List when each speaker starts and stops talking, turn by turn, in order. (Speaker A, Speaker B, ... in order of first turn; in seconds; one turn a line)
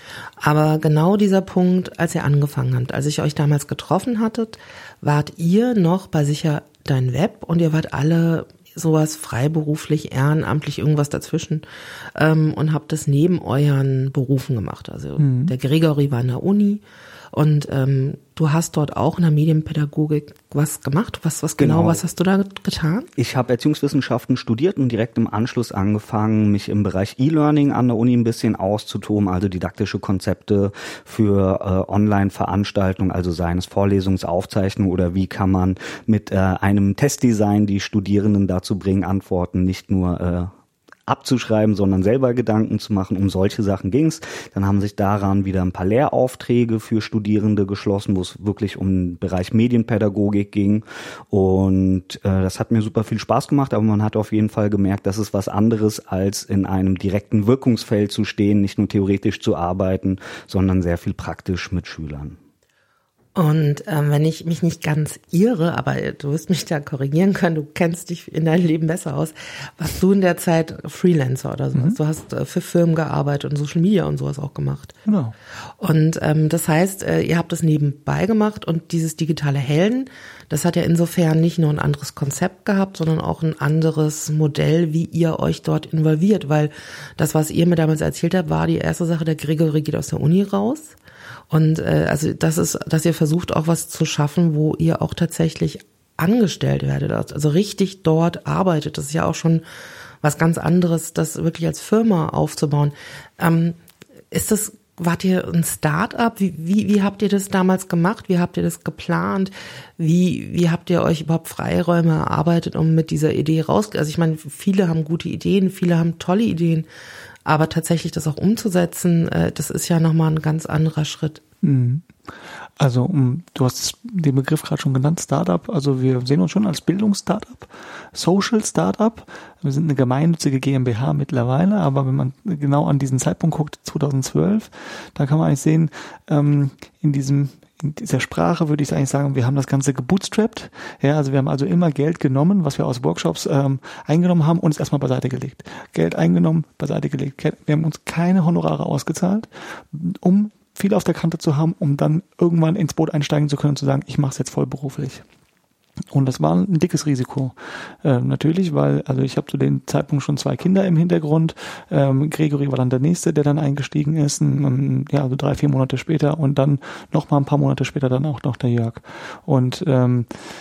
Speaker A: 0.4-11.6
Speaker A: 12.1-16.8
Speaker B: 15.2-15.5
Speaker A: 17.3-23.1
Speaker C: 21.6-22.0
Speaker C: 23.2-40.5
Speaker C: 41.1-62.4
Speaker A: 63.3-75.0
Speaker B: 75.0-75.3
Speaker A: 75.8-91.0
Speaker A: 91.5-99.6
Speaker A: 100.2-103.8
Speaker A: 104.3-116.9
Speaker A: 117.5-121.4
Speaker B: 121.6-122.1
Speaker B: 122.7-155.2
Speaker B: 156.1-170.3